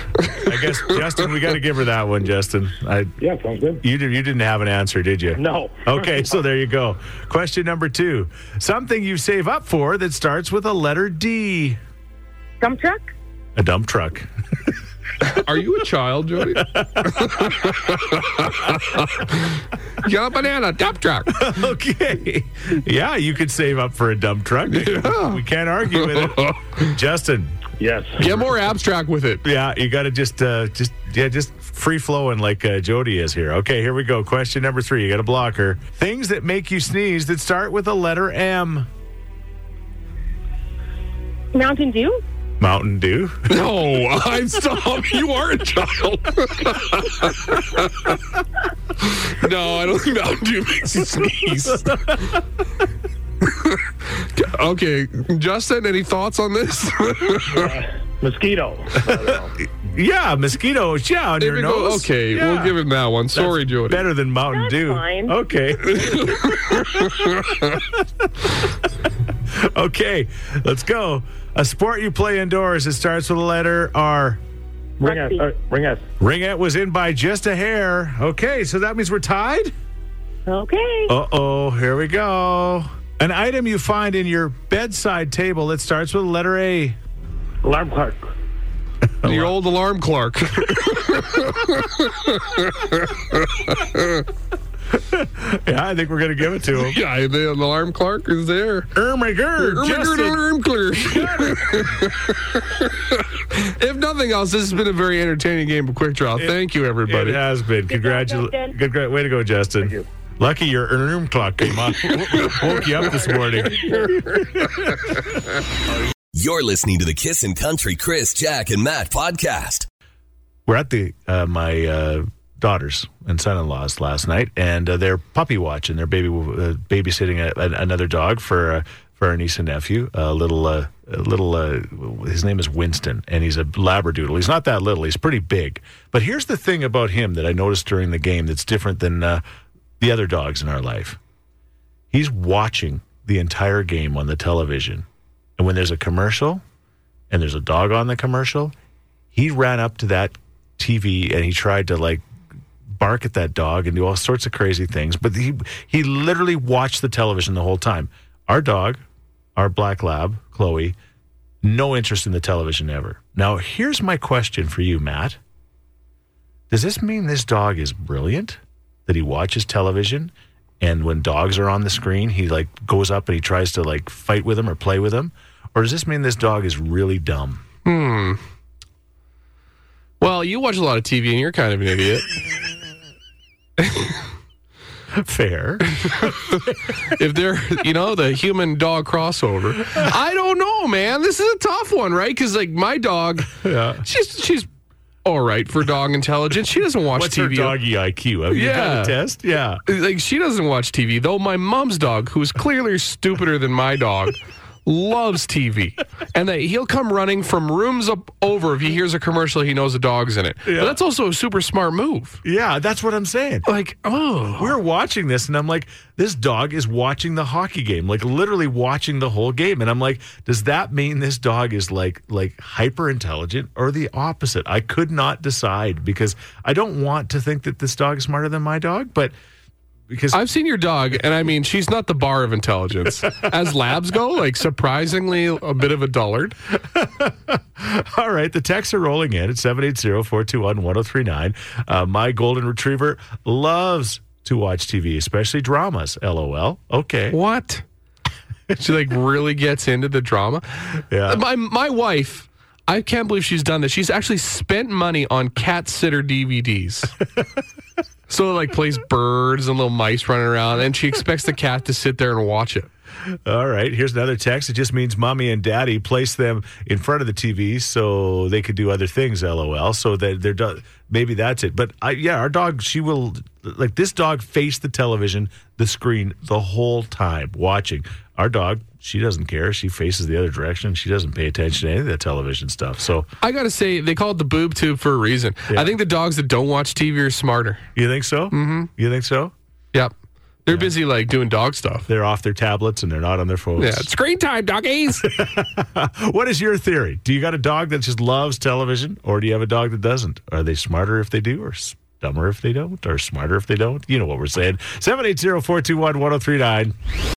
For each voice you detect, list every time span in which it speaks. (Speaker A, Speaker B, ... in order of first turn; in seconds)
Speaker A: 0.2-3.1, 3.8-11.8, 13.6-14.3, 16.5-17.5, 21.3-27.6, 29.4-38.9, 42.6-43.5, 51.7-52.4, 59.7-62.8, 63.3-67.1, 67.7-68.0, 69.5-74.4, 76.2-79.7, 81.1-87.0, 89.2-89.6, 95.1-97.0, 98.9-100.5, 107.1-115.1, 120.7-139.4, 140.0-141.2, 142.1-145.1, 145.6-146.6, 147.3-148.7, 149.3-152.2, 152.9-159.0, 159.6-161.0, 161.6-165.4, 166.7-177.6, 185.1-186.3, 193.6-194.1, 197.1-199.8, 210.7-211.0, 212.4-213.7, 214.6-229.3, 230.1-230.4, 236.8-247.4, 251.1-251.4, 263.5-283.3, 285.7-286.0, 288.0-289.5, 290.7-290.9, 292.1-294.1, 295.2-306.9
Speaker B: 3.2-3.8, 5.4-6.2, 27.8-28.3, 57.5-59.5, 75.0-76.0, 87.6-88.3
Speaker C: 12.6-13.1, 41.5-42.2, 64.5-65.3, 75.0-75.5, 80.5-81.2, 107.9-108.7
Speaker D: 15.2-21.5, 24.7-25.4, 25.9-26.9, 28.2-29.4, 43.5-48.2, 49.0-52.0, 53.4-57.7, 61.4-64.0, 65.9-67.8, 89.2-94.3, 96.7-98.9, 99.6-107.4, 177.8-178.4, 180.2-182.3, 183.8-184.1, 186.0-194.7, 195.2-197.8, 198.5-199.2, 199.9-212.4, 213.7-214.8, 230.3-236.6, 247.3-247.8, 248.8-250.7, 251.3-257.1, 258.3-262.9, 283.4-287.9, 288.5-288.9, 290.7-292.1, 293.8-295.4
Speaker E: 116.3-119.9